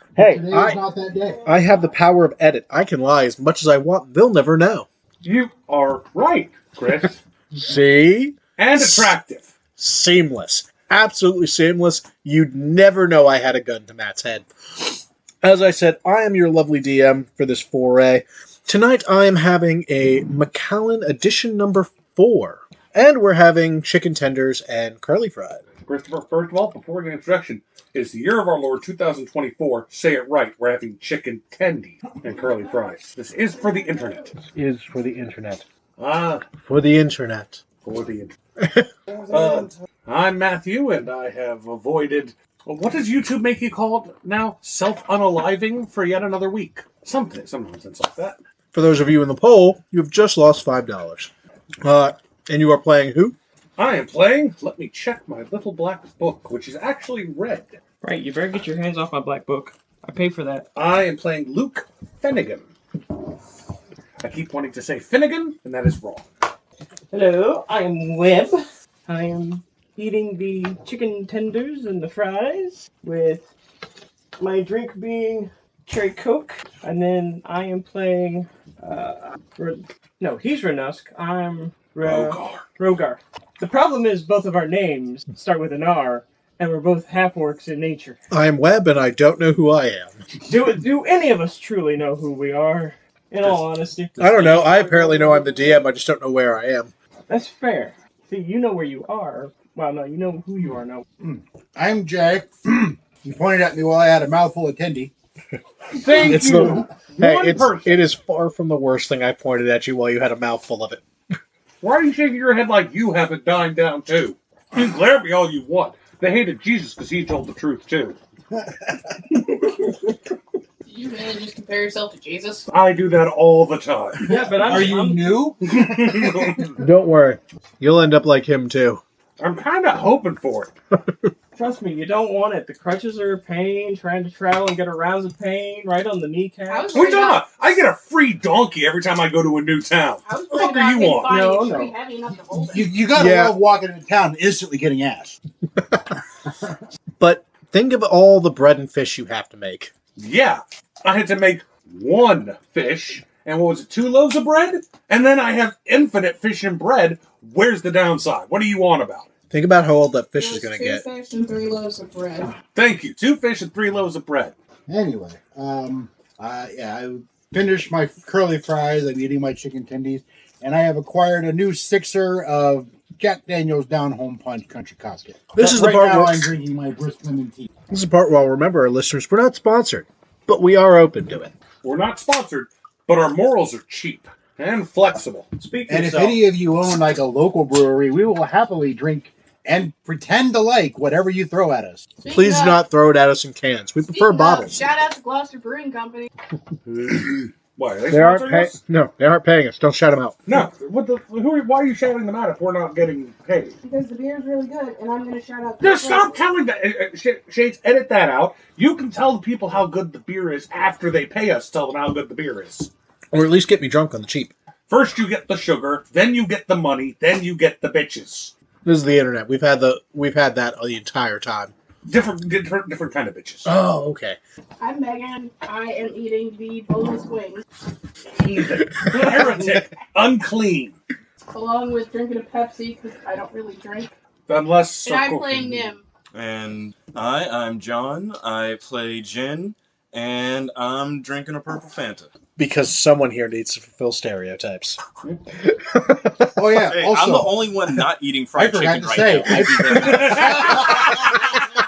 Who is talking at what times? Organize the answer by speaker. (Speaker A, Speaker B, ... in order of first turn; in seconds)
Speaker A: 0.2-0.8, 1.4-4.8, 7.5-9.1, 9.8-25.6, 34.4-35.6, 36.6-37.6, 38.6-38.9, 48.7-51.3, 51.8-53.4, 88.3-90.2, 94.2-96.9, 106.2-111.0, 126.7-129.0, 143.1-143.6, 147.2-149.9, 159.5-161.0, 175.6-176.5, 177.9-181.5, 192.3-194.8, 198.1-200.4, 213.3-214.5, 218.8-221.7, 223.7-224.4, 228.9-229.8, 242.6-245.0, 245.6-246.8
Speaker B: 0.2-1.4, 101.2-105.1, 106.2-106.9, 124.2-126.7, 142.7-145.4, 164.9-177.7, 185.9-192.1, 246.5-247.6, 248.5-250.9
Speaker C: 5.2-7.2, 8.6-9.5, 25.8-34.3, 36.0-36.4, 37.8-38.3, 39.3-48.4, 53.8-57.8, 60.7-62.7, 64.2-66.3, 82.0-82.6, 105.9-108.0, 111.8-118.2, 122.7-124.8, 125.7-126.7, 129.4-130.7, 136.9-141.3, 150.2-159.3, 162.7-164.5, 181.8-185.5, 196.9-198.8, 200.5-203.8, 205.8-212.9, 214.9-218.5, 222.1-223.7, 228.4-231.0, 234.5-236.0, 250.0-251.0
Speaker D: 39.2-39.7, 236.3-242.3, 246.8-251.3
Speaker E: 58.0-60.6, 67.1-73.5, 74.4-88.2, 90.4-95.8, 97.3-101.0, 124.2-125.5, 131.5-137.0, 141.3-141.9, 185.6-186.4
Speaker F: 120.8-122.7, 136.7-137.4, 140.2-142.9, 160.3-162.5, 192.2-192.8, 194.0-196.3, 203.8-206.4, 224.8-227.6, 231.5-234.1, 235.0-236.0